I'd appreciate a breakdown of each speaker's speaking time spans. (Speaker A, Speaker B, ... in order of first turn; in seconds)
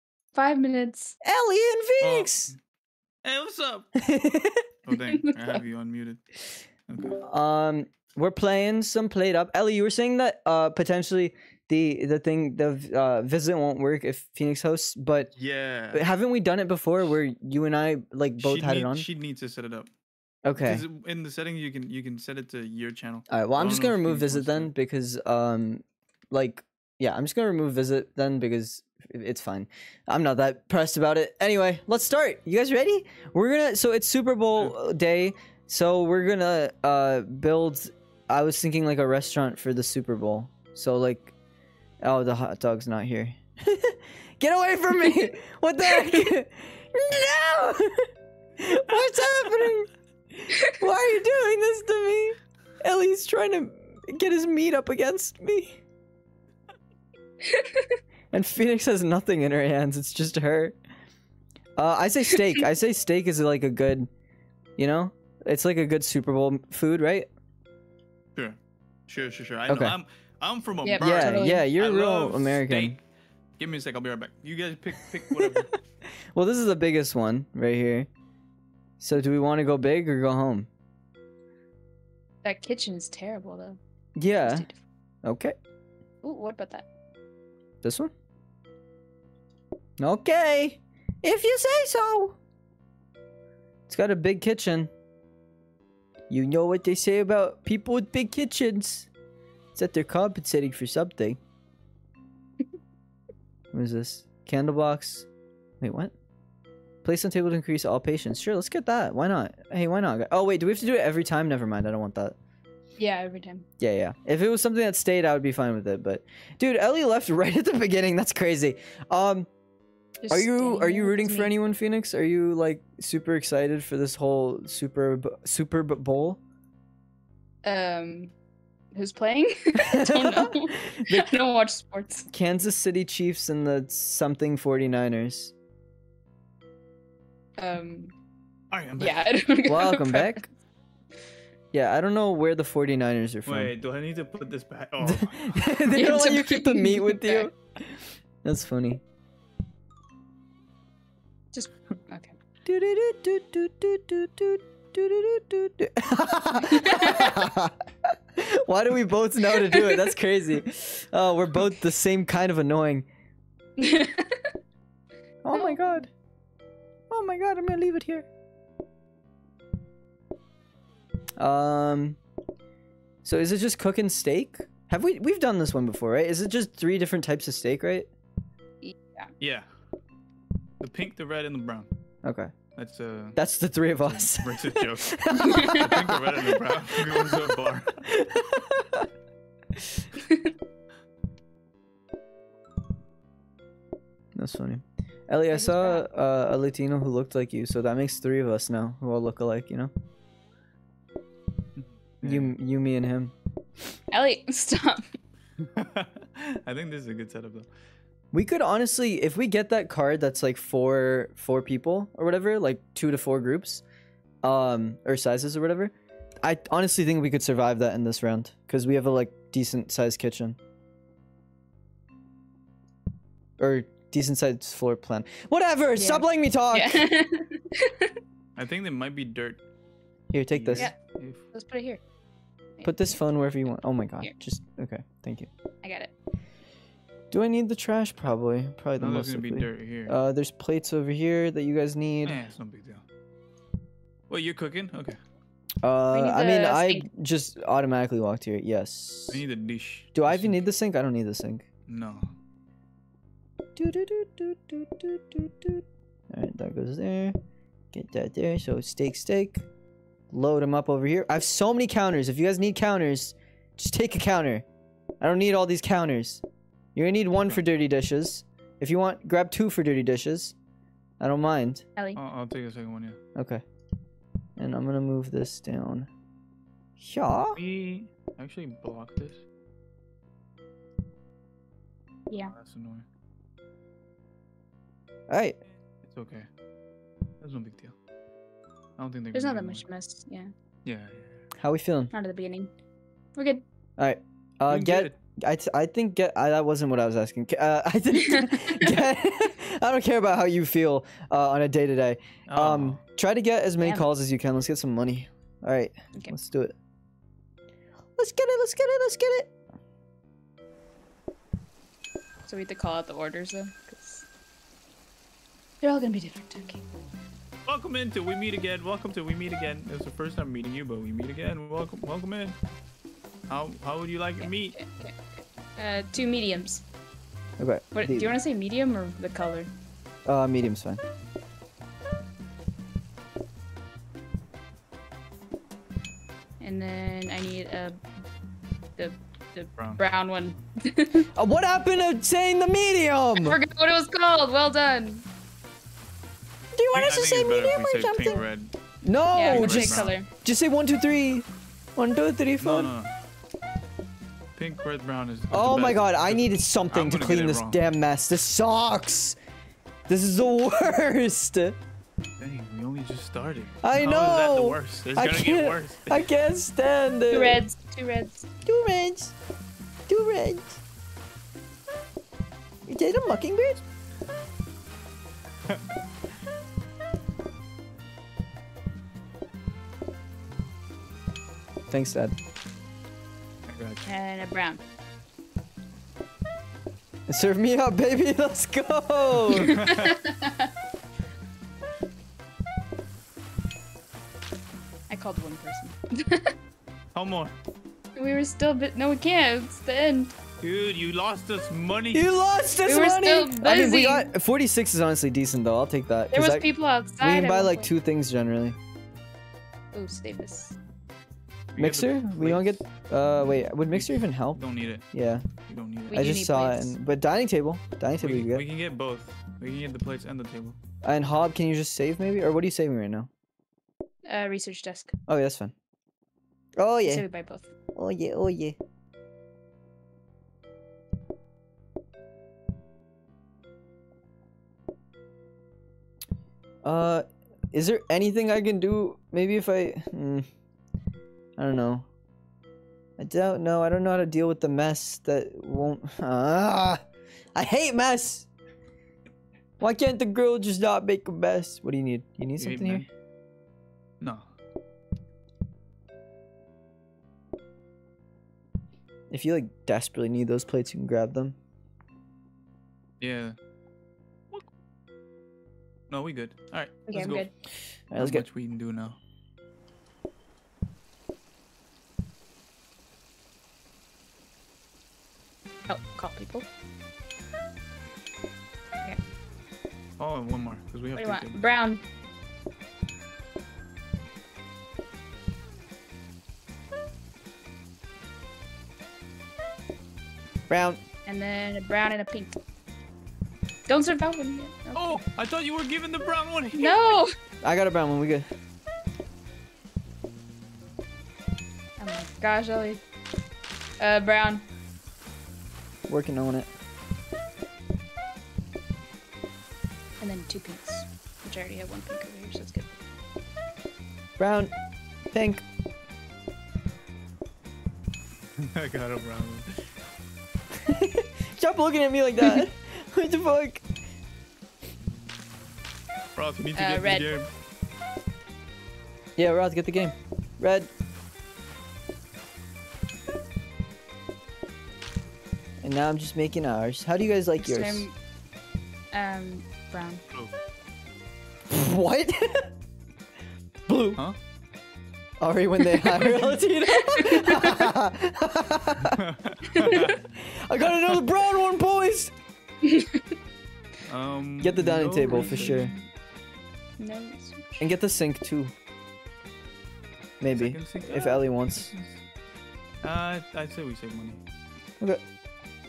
Speaker A: 0.3-1.1, 5.1-5.5, 45.9-46.3, 57.4-58.0, 70.8-71.7, 82.4-83.8, 84.4-84.8, 86.2-86.8, 113.0-113.7, 120.2-121.5, 127.6-128.3, 128.9-132.3, 137.6-138.1, 139.0-140.4, 145.9-147.5, 151.5-152.3, 156.6-157.4, 159.5-160.1, 163.8-164.4, 165.5-166.0, 178.8-179.3, 185.3-185.9, 190.2-190.5, 195.5-196.1, 204.1-205.2, 225.9-228.1, 231.5-232.0, 232.8-233.2, 235.8-236.1, 246.1-247.1, 289.3-290.5, 292.1-292.7, 293.4-293.6, 298.1-298.9, 303.8-304.1, 312.5-314.2, 315.8-316.9, 324.4-326.8, 327.9-329.7, 336.6-338.0, 339.0-341.3, 343.4-345.2, 349.3-350.3, 367.3-368.5, 384.0-384.8, 389.5-390.7, 395.1-396.5, 398.1-400.3, 402.9-404.3, 406.3-407.9, 409.9-410.8, 416.1-416.9, 424.2-425.1, 427.1-427.7, 467.1-467.5, 475.9-476.7, 481.1-482.0, 491.2-492.5, 493.9-495.2, 496.8-497.3, 502.0-503.0, 504.0-504.6, 510.2-512.9, 526.8-527.3, 537.6-538.1, 539.1-540.2, 546.9-547.9, 549.7-550.1, 552.8-553.3, 555.3-556.0, 557.0-557.9
Speaker B: 1.2-2.5, 4.0-4.7, 7.2-15.3, 15.9-19.1, 20.4-20.8, 23.3-41.3, 42.0-55.8, 58.3-60.8, 61.8-64.1, 64.8-67.3, 69.7-69.9, 71.0-73.0, 75.3-75.6, 76.3-78.1, 79.0-80.7, 84.2-84.7, 85.2-85.5, 87.8-88.1, 90.0-92.4, 93.9-94.9, 96.3-99.1, 99.7-101.4, 103.7-105.3, 105.8-106.1, 107.0-112.3, 113.8-119.5, 120.3-126.4, 129.8-131.3, 132.3-135.5, 139.7-140.4, 141.7-143.7, 145.0-149.0, 152.6-163.1, 165.4-166.1, 167.1-168.3, 171.4-172.2, 173.2-178.1, 182.2-182.5, 183.3-189.1, 189.8-190.0, 194.3-199.9, 202.2-203.3, 208.3-213.8, 214.4-220.6, 223.6-227.1, 230.3-230.9, 232.8-235.5, 237.3-242.5, 245.8-249.4, 250.1-251.7, 253.8-257.4, 257.9-259.6, 260.3-264.6, 265.2-266.4, 266.9-270.5, 271.2-271.8, 273.3-273.6, 274.6-276.1, 277.0-277.6, 285.3-285.6, 291.6-292.1, 294.0-306.7, 308.2-309.5, 327.6-328.4, 330.2-331.0, 341.3-343.6, 346.7-348.4, 349.0-352.9, 355.5-359.4, 360.1-361.8, 363.8-367.6, 368.6-369.3, 370.1-370.8, 372.9-373.8, 381.9-382.3, 387.3-389.8, 402.1-406.6, 407.2-408.8, 411.8-414.6, 415.1-415.5, 416.1-418.6, 421.0-423.3, 425.3-425.7, 426.8-427.2, 427.9-428.8, 436.8-440.4, 441.6-442.1, 443.2-447.0, 447.5-448.5, 449.8-453.1, 459.3-461.6, 468.1-468.4, 490.7-491.0, 497.6-498.4, 506.1-506.7, 514.4-514.7, 515.3-515.6, 520.7-523.8, 529.4-530.9, 535.8-538.1, 541.7-542.7, 543.9-544.2, 545.4-549.2, 549.8-552.3, 554.6-555.9, 557.8-558.7, 560.4-561.9
Speaker C: 2.0-2.6, 3.2-3.9, 4.9-6.2, 6.9-7.2, 15.3-16.1, 18.4-19.9, 20.6-24.7, 48.9-49.7, 68.3-73.0, 73.6-75.8, 138.7-139.2, 143.4-145.8, 179.4-179.7, 180.8-181.9, 182.8-183.4, 184.1-188.0, 201.8-202.5, 205.6-207.7, 228.6-229.6, 230.5-231.4, 239.0-240.2, 242.2-243.0, 244.3-245.2, 249.3-250.6, 251.9-252.3, 272.1-273.2, 277.5-279.4, 282.4-283.1, 286.0-286.5, 287.4-287.9, 289.0-289.8, 290.8-291.3, 294.7-295.1, 302.5-303.0, 317.7-322.6, 323.5-324.7, 346.9-348.7, 349.5-350.1, 352.6-353.1, 354.6-357.8, 362.4-366.3, 383.7-384.0, 389.4-390.2, 397.1-397.5, 400.6-402.2, 411.7-412.8, 413.9-415.0, 415.6-416.3, 418.2-420.8, 452.6-453.1, 463.2-463.6, 466.1-467.5, 468.1-469.2, 480.2-481.6, 494.9-497.2, 518.6-519.8, 526.4-527.5, 546.1-546.6, 549.0-550.2, 554.1-555.9, 560.5-562.2, 563.0-564.4